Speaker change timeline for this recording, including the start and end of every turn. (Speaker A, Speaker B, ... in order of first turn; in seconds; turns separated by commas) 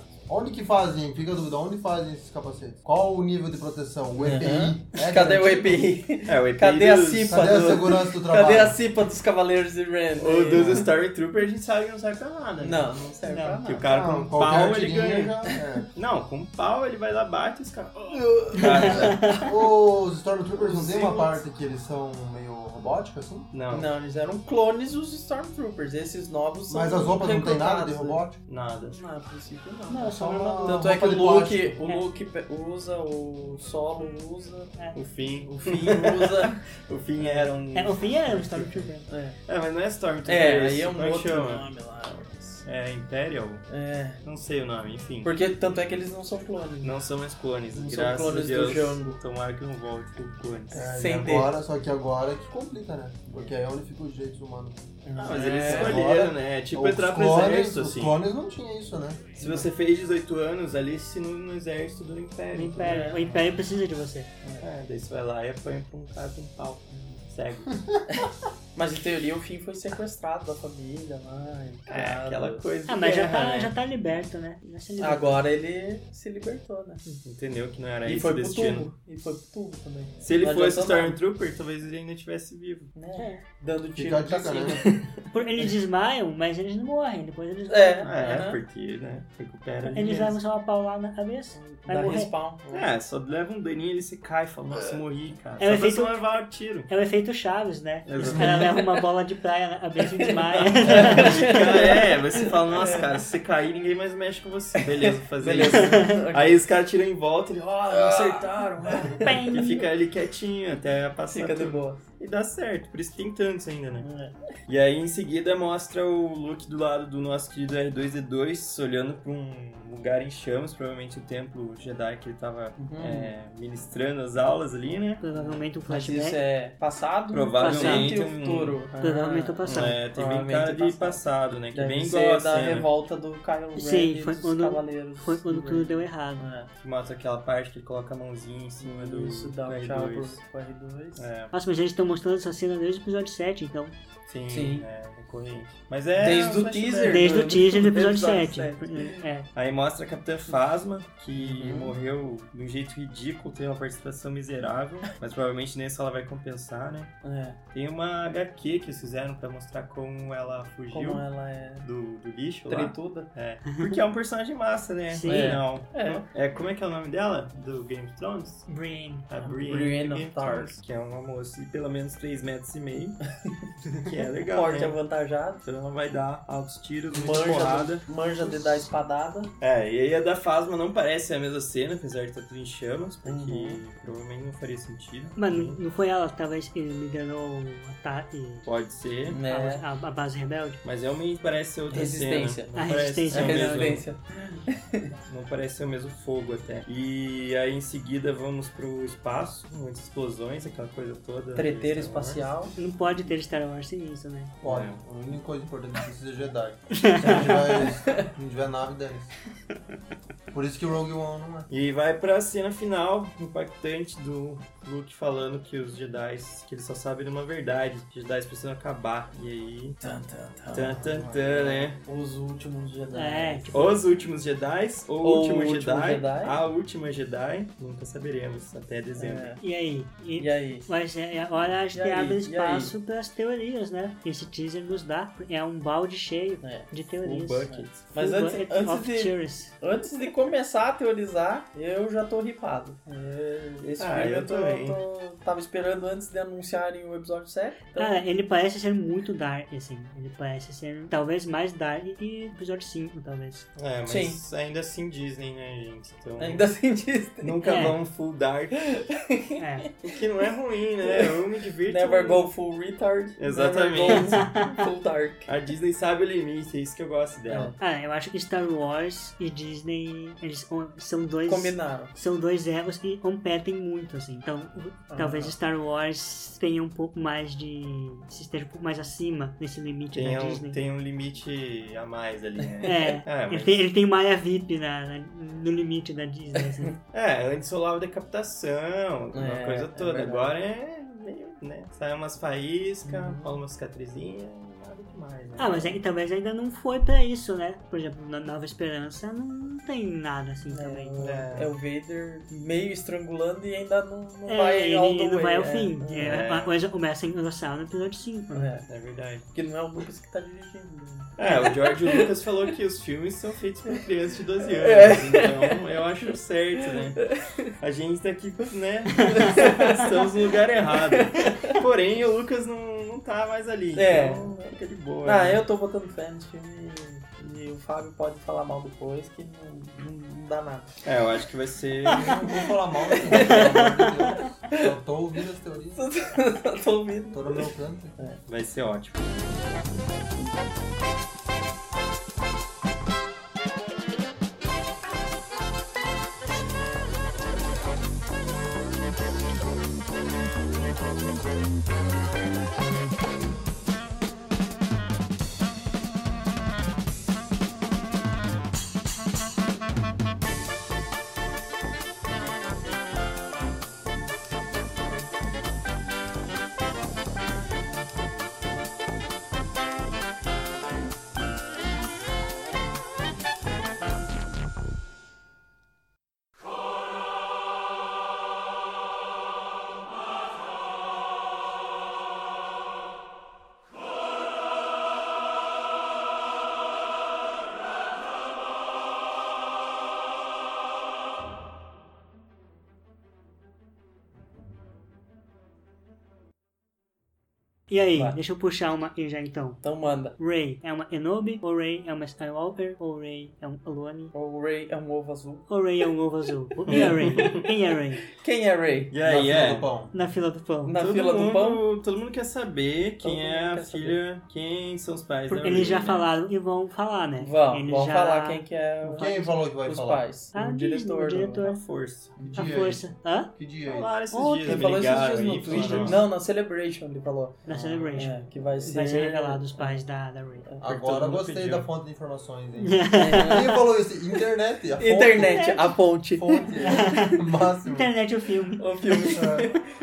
Speaker A: 0.3-5.9, Speaker B: 4.2-10.9, Speaker C: 6.3-7.6, Speaker A: 7.3-8.8, Speaker C: 10.2-15.4, Speaker A: 10.5-10.9, Speaker B: 12.6-13.9, Speaker D: 13.3-13.6, Speaker A: 13.9-15.9, Speaker C: 15.9-19.3, Speaker A: 18.1-23.5, Speaker D: 18.6-19.4, Speaker B: 20.6-21.3, Speaker C: 23.5-23.9, Speaker B: 23.7-28.2, Speaker A: 26.7-28.4, Speaker C: 28.5-29.0, Speaker B: 28.9-34.7, Speaker D: 29.9-30.9, Speaker A: 30.1-31.8, Speaker C: 35.0-38.9, Speaker B: 35.5-36.6, Speaker B: 37.2-37.5, Speaker D: 37.8-39.1, Speaker B: 39.1-39.4, Speaker C: 39.5-41.7, Speaker B: 40.2-42.6, Speaker C: 42.6-43.7, Speaker B: 43.7-44.2, Speaker C: 44.2-45.3, Speaker B: 45.2-47.0, Speaker C: 46.8-50.8, Speaker B: 47.7-49.2, Speaker B: 50.7-51.5, Speaker A: 50.7-54.8, Speaker B: 55.0-56.1, Speaker C: 55.2-58.2, Speaker A: 55.6-59.2, Speaker C: 59.4-63.4, Speaker B: 59.4-59.7, Speaker D: 62.5-64.3, Speaker B: 62.8-63.4, Speaker C: 64.6-67.8, Speaker B: 66.9-67.2, Speaker B: 68.1-72.7, Speaker C: 71.9-73.7, Speaker D: 72.9-75.4, Speaker B: 75.0-77.0, Speaker C: 77.2-78.9, Speaker B: 78.0-81.2, Speaker C: 80.2-82.9, Speaker B: 83.0-85.1, Speaker D: 83.2-83.4, Speaker A: 84.0-84.9, Speaker D: 85.3-88.1, Speaker B: 87.7-88.6, Speaker C: 88.0-90.4, Speaker D: 89.9-92.3, Speaker B: 91.5-92.8, Speaker C: 92.7-96.9, Speaker D: 95.6-101.5, Speaker C: 98.1-98.8, Speaker B: 98.4-98.8, Speaker B: 100.1-103.2, Speaker C: 100.8-114.1, Speaker B: 104.8-106.6, Speaker D: 105.8-106.2, Speaker B: 107.9-109.5, Speaker D: 109.2-109.8, Speaker B: 111.3-112.0, Speaker B: 114.0-114.3, Speaker C: 114.7-125.2, Speaker B: 122.8-123.3, Speaker D: 125.2-126.4, Speaker B: 125.3-136.7, Speaker C: 127.3-128.8, Speaker D: 127.6-128.2, Speaker D: 129.0-129.9, Speaker C: 129.7-132.9, Speaker D: 133.8-136.5, Speaker C: 136.8-140.4, Speaker B: 138.8-141.3, Speaker C: 141.2-141.5, Speaker D: 141.5-143.9, Speaker C: 144.3-147.5, Speaker B: 144.5-144.8, Speaker B: 146.2-149.2, Speaker D: 147.0-149.5, Speaker C: 149.6-157.2, Speaker B: 151.4-151.9, Speaker B: 157.2-157.6, Speaker C: 157.7-161.2, Speaker B: 160.9-161.9, Speaker C: 161.8-168.7, Speaker B: 162.7-163.3, Speaker D: 165.1-165.6, Speaker B: 165.3-166.2, Speaker D: 168.7-169.3, Speaker C: 169.3-173.2, Speaker B: 169.4-170.8, Speaker C: 174.0-175.0, Speaker B: 174.5-175.6, Speaker C: 175.6-178.6, Speaker B: 177.1-179.5, Speaker C: 179.6-185.8, Speaker B: 183.2-183.8, Speaker D: 185.4-188.7, Speaker C: 188.7-189.4, Speaker B: 189.3-189.8, Speaker D: 189.5-190.8, Speaker C: 190.8-194.0, Speaker B: 191.9-192.7, Speaker D: 192.8-194.0, Speaker B: 193.3-195.1, Speaker C: 195.3-202.5, Speaker B: 201.6-202.8, Speaker D: 202.8-204.5, Speaker A: 204.6-209.3, Speaker C: 204.6-205.0, Speaker D: 206.9-207.6, Speaker B: 207.9-208.3, Speaker A: 210.5-211.7, Speaker C: 211.7-220.0, Speaker B: 220.0-223.9, Speaker C: 220.7-222.0, Speaker D: 223.1-224.0, Speaker C: 223.7-229.5, Speaker B: 225.2-226.6, Speaker B: 229.2-229.6, Speaker D: 229.6-239.7, Speaker B: 230.4-230.9, Speaker B: 231.9-232.9, Speaker B: 236.6-236.9, Speaker C: 237.2-238.1, Speaker B: 237.7-248.2, Speaker C: 244.0-245.0, Speaker D: 248.0-253.7, Speaker C: 253.8-256.7, Speaker B: 254.1-254.4, Speaker B: 256.4-257.6, Speaker C: 257.4-258.9, Speaker D: 257.6-258.0, Speaker B: 258.9-260.1, Speaker D: 259.6-259.9, Speaker C: 260.0-262.5, Speaker B: 261.0-261.3, Speaker B: 261.9-265.5, Speaker C: 263.4-264.5, Speaker D: 264.1-264.7, Speaker C: 265.5-267.8, Speaker B: 267.5-267.8, Speaker D: 267.8-280.8, Speaker B: 271.5-272.1, Speaker B: 275.1-275.5, Speaker C: 280.1-283.9, Speaker D: 282.9-286.9, Speaker C: 287.1-296.0, Speaker B: 289.3-290.5, Speaker B: 293.1-293.5, Speaker D: 295.6-301.2, Speaker B: 300.7-306.4, Speaker C: 301.2-301.7, Speaker D: 304.5-308.8, Speaker C: 306.2-306.8, Speaker B: 308.5-308.9, Speaker C: 308.9-309.5, Speaker B: 309.5-312.3, Speaker C: 311.4-317.2, Speaker B: 314.6-315.8, Speaker C: 317.8-325.6, Speaker B: 319.2-321.8, Speaker B: 323.9-324.5, Speaker B: 325.2-330.9, Speaker C: 331.1-332.3, Speaker A: 332.1-336.1, Speaker B: 333.0-334.0, Speaker D: 333.7-334.1, Speaker B: 335.9-338.4, Speaker A: 337.3-338.2, Speaker C: 338.5-339.3, Speaker D: 397.9-399.8, Speaker B: 399.8-400.4, Speaker D: 400.4-404.3, Speaker B: 404.3-405.7, Speaker D: 405.7-408.2, Speaker C: 406.9-407.6, Speaker B: 406.9-407.7, Speaker B: 408.4-409.1, Speaker C: 409.1-409.9, Speaker A: 409.2-410.1, Speaker D: 410.1-410.9, Speaker B: 410.9-411.8, Speaker C: 410.9-416.3, Speaker B: 413.2-414.2, Speaker D: 415.5-419.6, Speaker B: 417.4-421.6, Speaker A: 419.1-420.2, Speaker D: 420.5-421.8, Speaker C: 421.6-422.3, Speaker B: 422.4-422.7, Speaker D: 422.4-423.5, Speaker A: 422.4-424.2, Speaker C: 423.9-426.3, Speaker D: 424.3-424.9, Speaker B: 424.6-430.1, Speaker D: 425.7-426.2, Speaker D: 427.7-430.7, Speaker B: 430.6-431.6, Speaker A: 430.8-438.1, Speaker C: 431.2-431.8, Speaker D: 432.8-433.8, Speaker B: 433.2-433.8, Speaker B: 435.0-437.3, Speaker D: 435.4-435.9, Speaker D: 436.8-439.3, Speaker B: 438.8-439.8, Speaker A: 439.4-439.7